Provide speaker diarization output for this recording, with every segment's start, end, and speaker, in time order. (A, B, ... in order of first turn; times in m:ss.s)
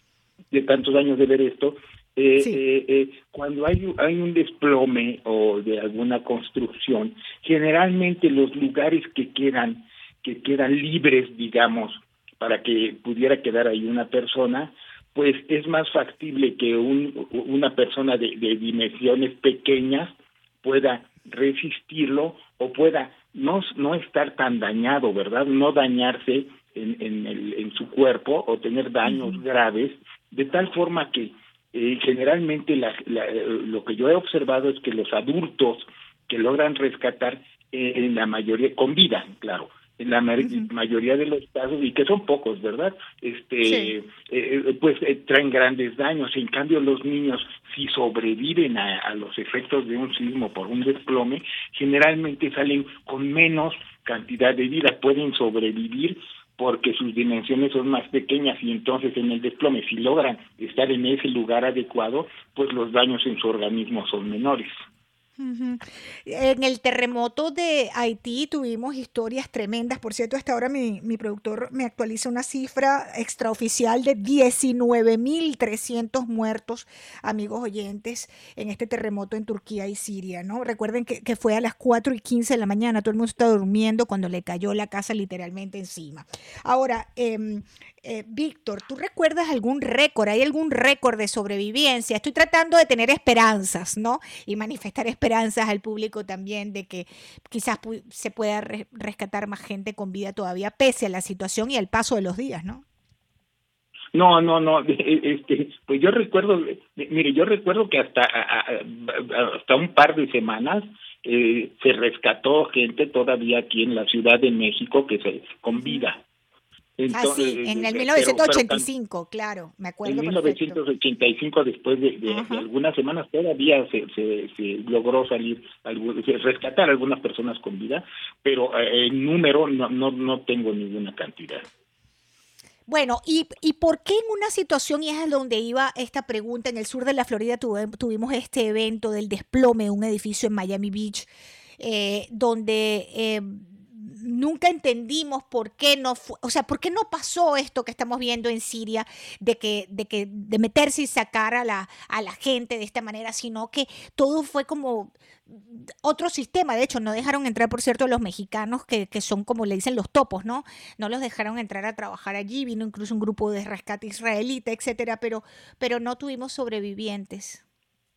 0:00.5-1:04.8 A
0:43.6-0:43.9 B
1:05.4-1:42.8 B
1:44.1-1:56.2 A
1:55.7-1:56.0 B
1:57.0-1:58.9 A
1:57.1-2:00.8 B
2:00.0-2:11.6 A
2:02.3-2:02.6 B
2:12.9-2:21.3 B
2:21.8-2:47.6 B